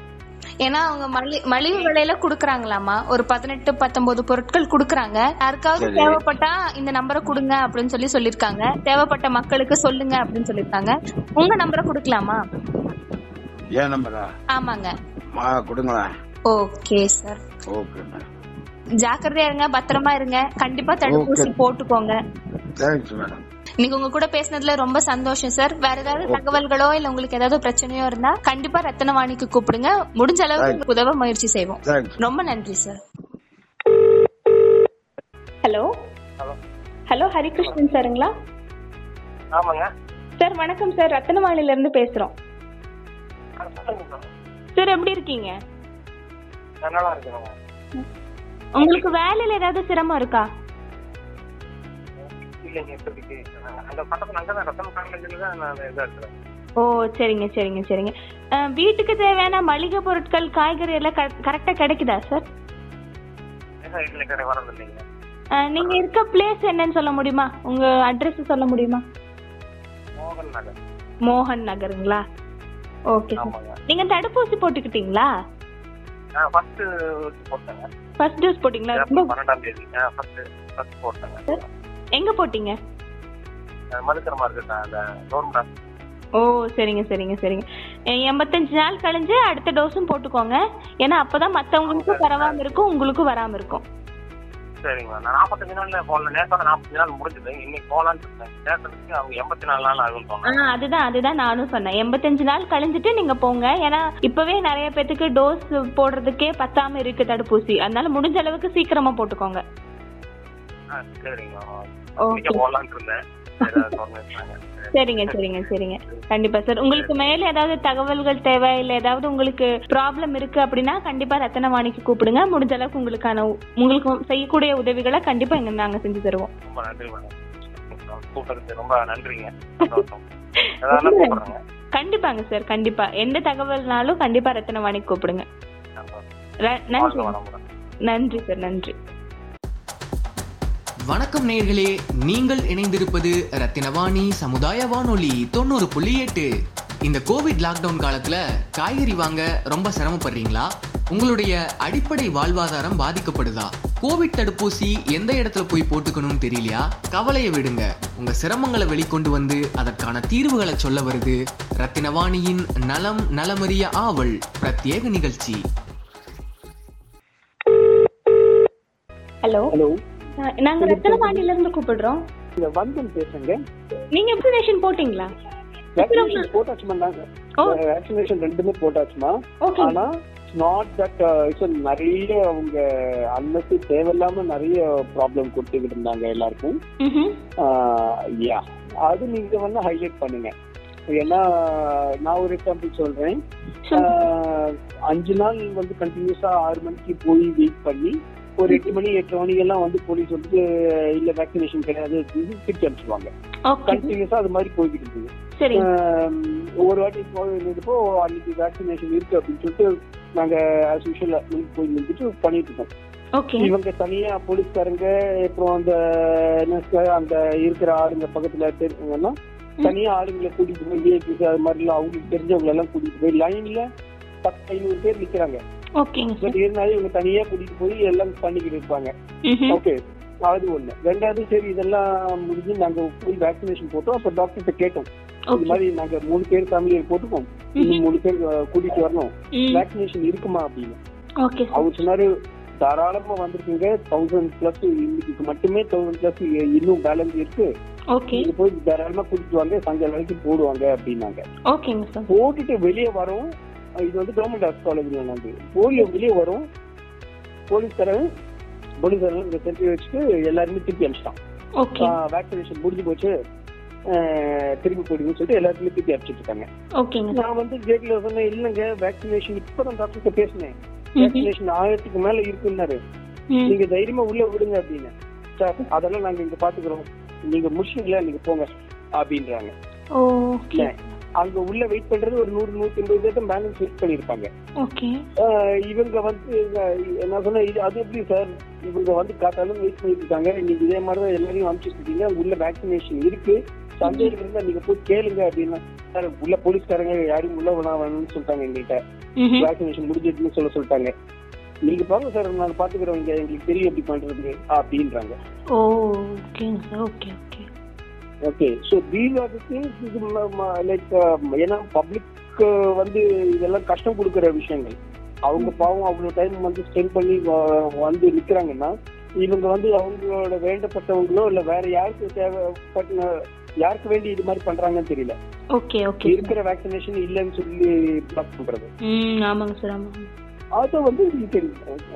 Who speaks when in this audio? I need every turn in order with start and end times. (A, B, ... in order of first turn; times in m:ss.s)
0:00.6-0:12.4 A
0:05.8-0:06.2 B
0:13.8-0:14.3 B
0:14.5-0:14.9 A
0:15.4-0:16.1 B
0:16.5-0:17.4 A
0:17.7-0:18.2 B
0:19.0-0:22.1 A
0:21.0-0:21.5 B
0:22.8-0:23.4 B
0:23.8-0:33.0 A
0:26.2-0:26.6 B
0:30.6-0:30.8 B
0:31.8-0:32.2 B
0:37.1-0:38.3 C
0:39.5-0:39.8 D
0:40.4-0:42.3 C
0:43.6-0:44.3 D
0:44.8-0:45.6 C
0:46.8-0:47.5 D
0:48.8-0:50.5 C
0:52.6-0:56.3 D
0:56.8-1:02.4 C
1:03.8-1:05.0 D
1:05.6-1:09.0 C
1:10.2-1:10.7 D
1:11.3-1:12.2 C
1:13.1-1:15.3 C
1:13.4-1:13.8 D
1:16.4-1:17.8 D
1:18.2-1:19.3 C
1:18.9-1:21.6 D
1:22.2-1:22.8 C
1:23.9-1:25.7 D
1:26.4-1:33.8 C
1:31.9-1:32.8 D
1:34.8-1:40.6 D
1:40.5-1:49.6 C
1:50.9-1:55.4 D
1:52.2-1:52.6 C
1:54.9-2:06.5 C
1:56.9-1:57.2 D
2:06.7-2:10.2 D
2:10.8-2:11.6 D
2:10.9-2:11.4 C
2:12.0-2:15.4 C
2:16.0-2:16.2 D
2:16.6-2:17.3 C
2:17.0-2:17.6 D
2:18.1-2:18.9 C
2:21.1-2:26.5 E
2:27.0-2:45.6 E
2:49.4-2:49.7 C
2:49.7-2:50.0 F
2:50.4-2:52.2 C
2:50.8-2:51.4 F
2:52.6-2:53.6 F
2:54.1-2:55.3 C
2:56.0-3:02.8 F
2:56.0-2:56.5 C
2:59.6-3:00.0 C
3:03.3-3:06.8 F
3:07.0-3:07.4 C
3:07.6-3:10.5 F
3:11.1-3:13.4 F
3:13.9-3:14.2 C
3:14.0-3:20.6 F
3:18.7-3:18.9 C
3:21.2-3:23.3 F
3:23.7-3:24.1 C
3:23.9-3:32.9 F
3:25.6-3:25.9 C
3:33.4-3:33.7 C
3:33.6-3:43.9 F
3:44.4-3:45.6 F
3:46.0-3:46.6 C
3:46.4-3:49.1 F
3:49.5-3:49.8 C
3:49.7-4:01.0 F
3:55.5-3:55.8 C
3:57.8-3:58.0 C
3:59.6-3:59.8 C
4:01.4-4:01.9 C
4:01.7-4:02.3 F
4:02.8-4:07.7 F
4:08.1-4:08.5 C
4:08.3-4:11.4 F
4:11.7-4:12.3 C
4:12.3-4:13.5 F
4:14.1-4:16.6 F
4:17.7-4:18.3 F
4:19.0-4:21.4 F
4:21.8-4:22.1 C
4:22.0-4:23.3 F
4:24.1-4:26.7 F
4:27.0-4:27.4 C
4:27.3-4:33.0 F
4:31.2-4:31.5 C
4:33.7-4:39.7 F
4:40.2-4:40.9 C
4:40.8-4:44.5 F
4:44.8-4:45.2 C
4:45.4-4:59.0 F
4:54.0-4:54.3 C
4:59.4-4:59.7 C
4:59.6-5:01.1 F
5:01.9-5:05.4 F
5:05.7-5:07.7 C
5:08.5-5:23.3 F
5:23.8-5:25.4 F
5:25.8-5:26.5 C
5:26.2-5:28.9 F
5:29.0-5:30.3 C
5:30.8-5:31.8 F